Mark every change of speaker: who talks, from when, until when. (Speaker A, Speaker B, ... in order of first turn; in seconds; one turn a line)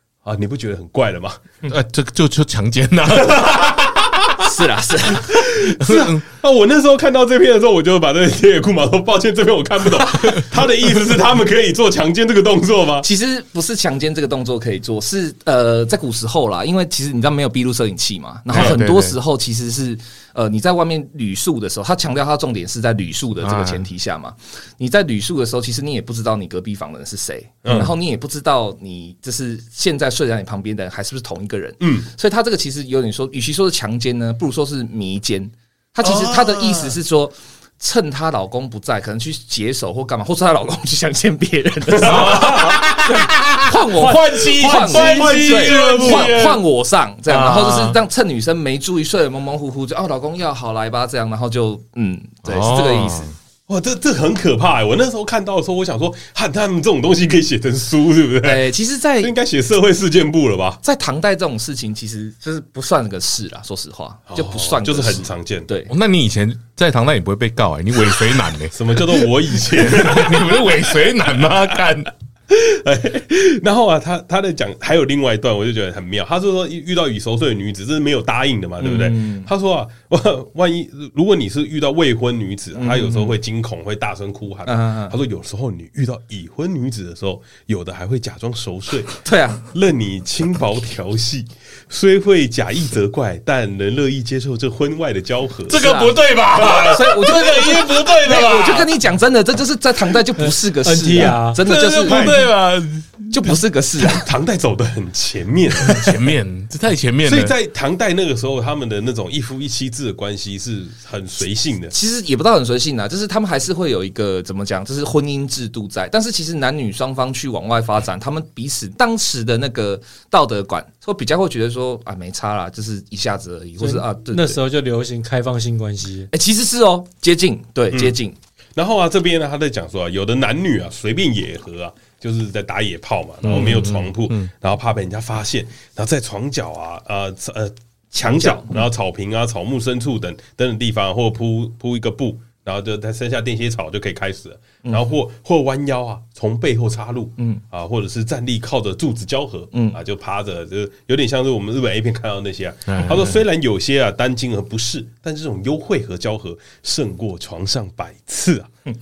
Speaker A: 0.2-1.4
Speaker B: 1.6-4.0
Speaker A: 3.1-4.1
Speaker C: 4.4-5.4
Speaker A: 5.2-13.1
Speaker B: 5.6-6.2
Speaker C: 13.0-53.3
Speaker B: 18.5-19.1
Speaker B: 23.4-23.8
Speaker A: 27.6-27.9
Speaker A: 31.8-32.1
Speaker A: 36.0-37.0
Speaker A: 41.9-42.8
Speaker B: 42.0-46.6
Speaker A: 44.6-46.4
Speaker B: 47.3-48.0
Speaker B: 52.4-53.3
Speaker A: 53.7-58.6
Speaker C: 58.4-59.3
Speaker A: 59.2-60.8
Speaker C: 60.8-65.9
Speaker A: 64.3-65.7
Speaker B: 65.9-72.1
Speaker A: 68.7-71.1
Speaker A: 72.5-95.8
Speaker C: 78.8-79.5
Speaker C: 82.7-83.3
Speaker C: 84.7-85.2
Speaker C: 89.2-89.6
Speaker B: 95.7-98.9
Speaker C: 95.7-102.3
Speaker A: 96.6-96.9
Speaker D: 100.4-101.6
Speaker B: 101.6-103.3
Speaker A: 101.8-102.5
Speaker C: 103.3-104.3
Speaker A: 104.0-106.2
Speaker B: 105.8-107.5
Speaker A: 107.2-111.9
Speaker C: 111.9-124.6
Speaker D: 123.8-126.3
Speaker C: 126.3-128.3
Speaker A: 128.8-158.7
Speaker B: 133.4-134.5
Speaker C: 138.1-138.8
Speaker C: 149.7-150.0
Speaker B: 152.9-153.4